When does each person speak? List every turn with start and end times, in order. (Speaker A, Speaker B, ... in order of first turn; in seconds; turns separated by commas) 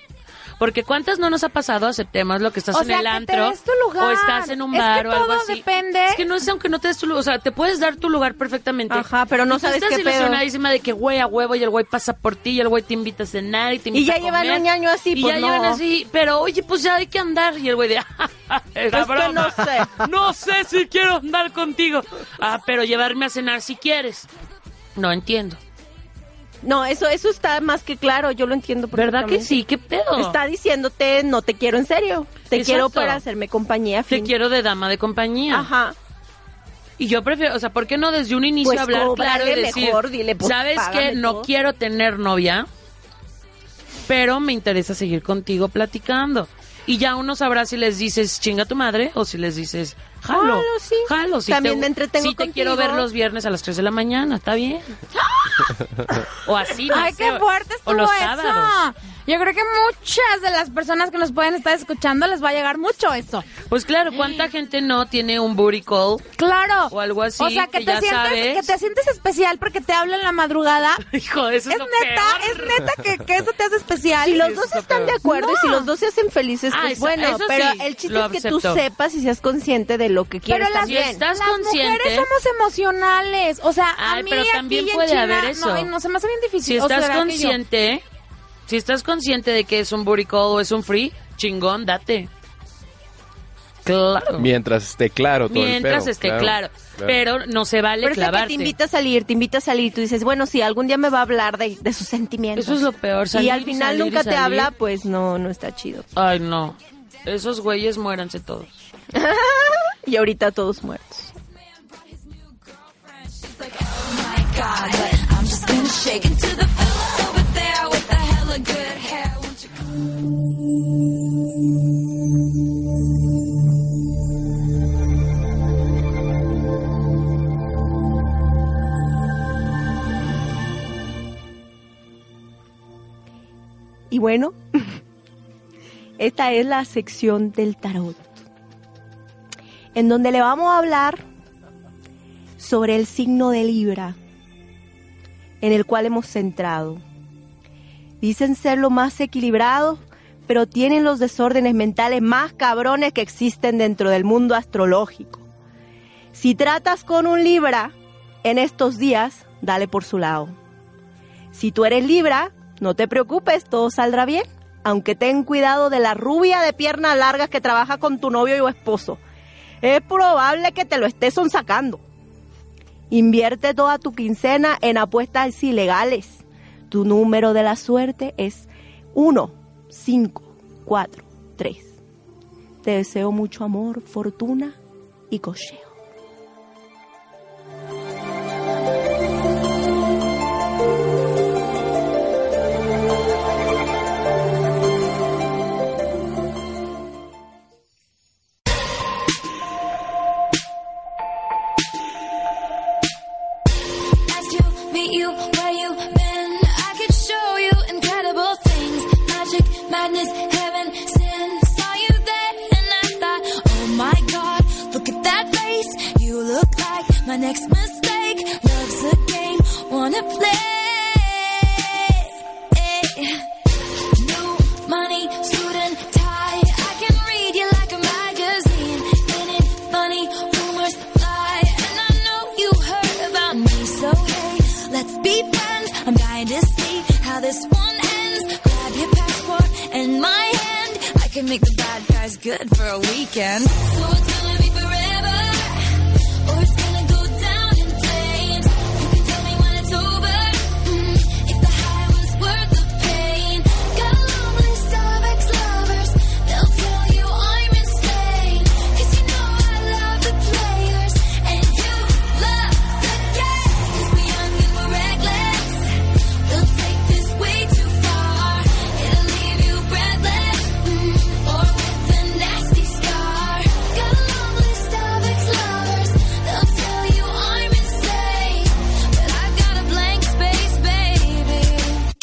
Speaker A: 0.6-24.3, Speaker B: 2.7-6.2, Speaker C: 8.9-10.4, Speaker C: 13.9-15.8, Speaker C: 18.9-19.9, Speaker A: 25.0-25.6, Speaker C: 26.6-29.6, Speaker A: 28.9-30.4, Speaker C: 30.2-34.3, Speaker A: 32.5-33.2, Speaker A: 34.1-35.7, Speaker C: 35.5-36.0, Speaker A: 37.0-42.7, Speaker C: 38.6-41.5, Speaker A: 44.1-55.0, Speaker C: 50.3-53.1, Speaker A: 56.4-58.8, Speaker B: 56.9-63.5, Speaker A: 63.7-66.3, Speaker B: 66.4-71.0, Speaker A: 66.9-68.7, Speaker A: 71.0-72.9, Speaker B: 71.7-74.5, Speaker C: 74.2-81.2, Speaker A: 74.3-75.2, Speaker B: 75.2-75.9, Speaker A: 76.7-78.8, Speaker B: 80.5-87.6, Speaker A: 80.8-82.3, Speaker A: 84.0-85.9, Speaker A: 86.6-88.0, Speaker A: 88.7-92.3, Speaker A: 93.8-94.5, Speaker D: 94.4-97.2, Speaker A: 95.5-98.8, Speaker C: 98.0-106.0, Speaker A: 102.5-104.7, Speaker A: 106.2-108.7, Speaker C: 109.1-111.3, Speaker E: 112.2-119.9, Speaker C: 134.1-135.0, Speaker C: 136.2-138.4, Speaker C: 139.9-141.2, Speaker C: 142.6-144.2, Speaker C: 145.6-147.0, Speaker C: 148.2-155.4, Speaker C: 156.3-160.6, Speaker C: 161.5-169.2, Speaker C: 169.8-172.0, Speaker C: 173.1-181.9, Speaker C: 182.8-184.8, Speaker C: 185.3-185.9, Speaker E: 204.3-223.5, Speaker E: 224.2-282.1